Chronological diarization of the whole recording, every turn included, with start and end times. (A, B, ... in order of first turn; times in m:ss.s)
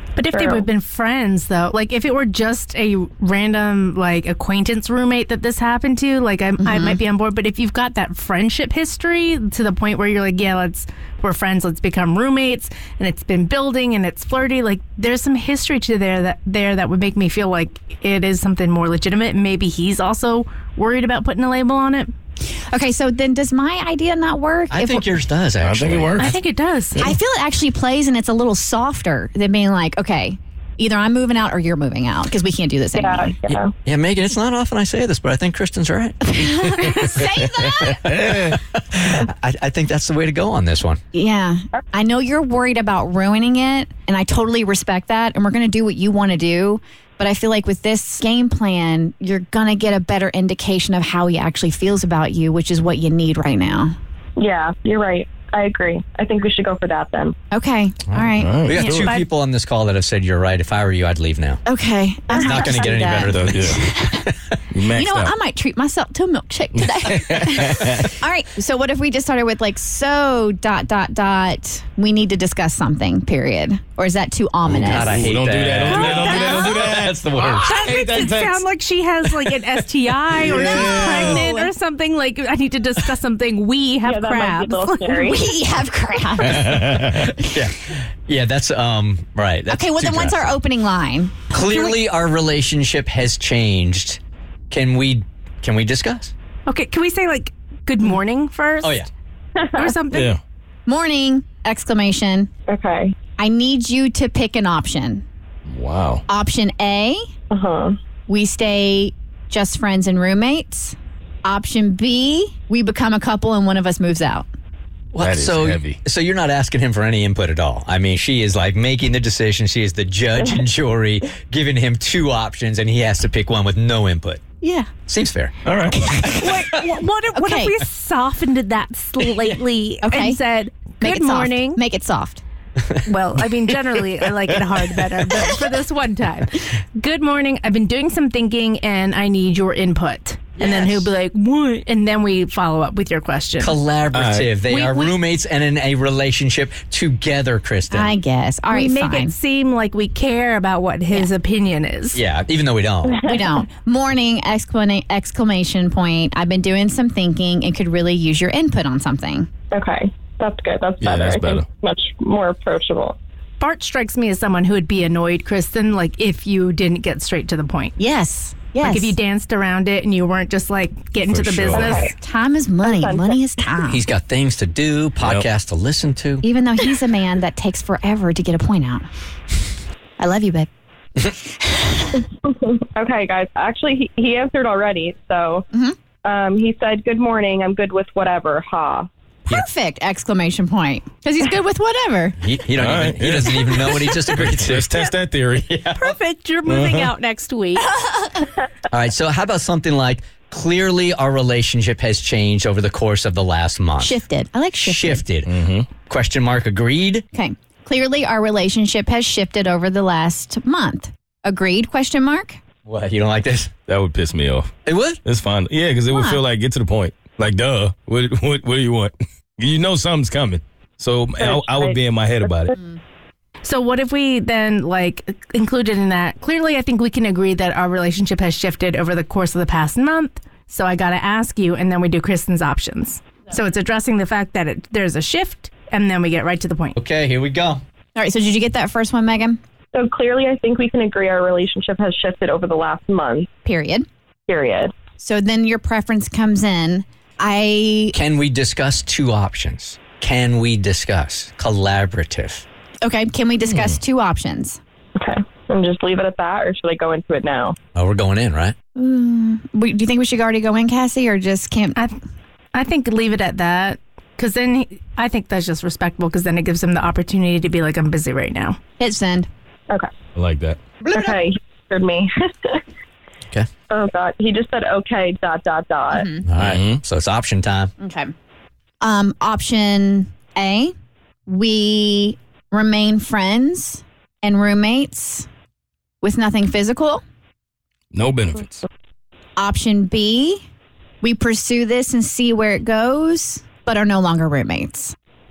0:00.2-0:22.1 A
0:00.3-0:00.6 B
0:06.6-0:07.0 C
0:22.7-0:25.1 C
0:24.7-0:26.4 D
0:25.6-0:26.3 E
0:26.2-0:27.1 A
0:27.0-0:33.4 C
0:33.0-0:33.7 B
0:33.5-0:37.1 D
0:36.3-0:38.1 C
0:37.8-0:38.5 E
0:38.1-0:41.0 D
0:41.1-0:53.9 C
0:54.4-0:57.3 B
0:57.5-0:58.6 C
0:58.1-1:01.6 D
0:58.4-0:59.2 E
0:58.8-0:59.3 A
1:01.7-1:04.3 C
1:02.3-1:03.0 B
1:02.4-1:04.3 D
1:03.2-1:03.8 E
1:04.7-1:05.3 E
1:04.9-1:15.2 C
1:06.8-1:08.1 E
1:14.7-1:18.6 E
1:14.7-1:17.8 D
1:15.9-1:16.6 A
1:17.6-1:25.1 A
1:20.4-1:21.4 E
1:20.6-1:21.7 C
1:24.0-1:25.5 B
1:25.1-1:27.3 C
1:26.5-1:27.2 E
1:27.4-1:30.6 D
1:29.7-1:31.5 C
1:31.5-1:34.2 D
1:34.7-1:36.3 D
1:36.7-1:39.0 A
1:38.8-1:39.1 D
1:39.6-1:39.9 B
1:39.8-1:40.4 A
1:40.1-1:40.4 E
1:40.9-1:42.5 C
1:42.7-1:43.2 B
1:43.4-1:45.2 C
1:45.7-1:46.2 E
1:46.3-1:47.2 C
1:47.5-1:48.0 B
1:48.3-1:54.5 C
1:55.1-2:04.4 D
1:55.2-1:56.0 E
2:04.6-2:04.9 C
2:05.1-2:05.5 D
2:05.6-2:06.2 E
2:06.0-2:06.4 C
2:06.4-2:11.8 A
2:07.3-2:07.7 C
2:10.0-2:10.4 C
2:11.0-2:12.4 C
2:13.0-2:23.8 A
2:20.6-2:21.1 D
2:23.6-2:28.2 D
2:24.1-2:24.5 E
2:24.7-2:25.2 A
2:27.9-2:29.4 C
2:28.7-2:32.2 A
2:32.1-2:33.2 D
2:33.1-2:33.4 B
2:33.2-2:39.5 C
2:39.7-2:43.2 B
2:41.0-2:41.7 E
2:43.6-2:48.0 A
2:48.0-2:49.2 C
2:48.8-2:52.0 A
2:51.3-2:52.0 E
2:51.7-2:52.1 B
2:52.2-2:54.0 C
2:52.8-2:53.4 B
2:53.8-2:56.4 D
2:55.2-2:55.5 E
2:56.4-2:59.1 C
3:00.2-3:00.7 C
3:01.6-3:02.2 C
3:02.4-3:05.6 B
3:06.2-3:09.1 B
3:09.5-3:12.4 C
3:12.4-3:15.0 D
3:12.8-3:15.7 E
3:15.7-3:16.2 D
3:16.0-3:17.9 A
3:16.7-3:17.1 E
3:18.0-3:18.3 C
3:18.9-3:24.2 D
3:24.0-3:25.3 C
3:24.8-3:25.5 D
3:25.4-3:25.9 E
3:26.0-3:27.2 D
3:27.3-3:32.6 C
3:32.8-3:33.7 D
3:33.9-3:34.7 E
3:34.9-3:35.2 D
3:35.2-3:42.7 E
3:36.1-3:36.4 C
3:41.4-3:42.7 B
3:43.6-3:57.0 A
3:57.0-3:57.8 D
3:58.2-3:59.6 C
3:59.9-4:03.5 B
4:03.6-4:04.1 C
4:04.5-4:04.9 B
4:05.2-4:08.2 C
4:08.1-4:12.6 D
4:13.0-4:14.8 C
4:13.6-4:14.0 E
4:15.2-4:17.8 B
4:18.0-4:18.8 D
4:19.0-4:22.0 C
4:22.7-4:28.8 A
4:29.0-4:29.5 C
4:30.4-4:30.8 E
4:31.0-4:31.4 C
4:31.1-4:32.8 B
4:33.9-4:36.3 B
4:36.1-4:36.4 C
4:36.4-4:37.9 D
4:36.6-4:37.0 E
4:38.0-4:38.3 C
4:39.0-4:40.9 C
4:41.5-4:45.5 C
4:46.2-4:47.2 C
4:48.1-4:48.8 E
4:49.6-4:50.6 C
4:51.2-4:55.2 C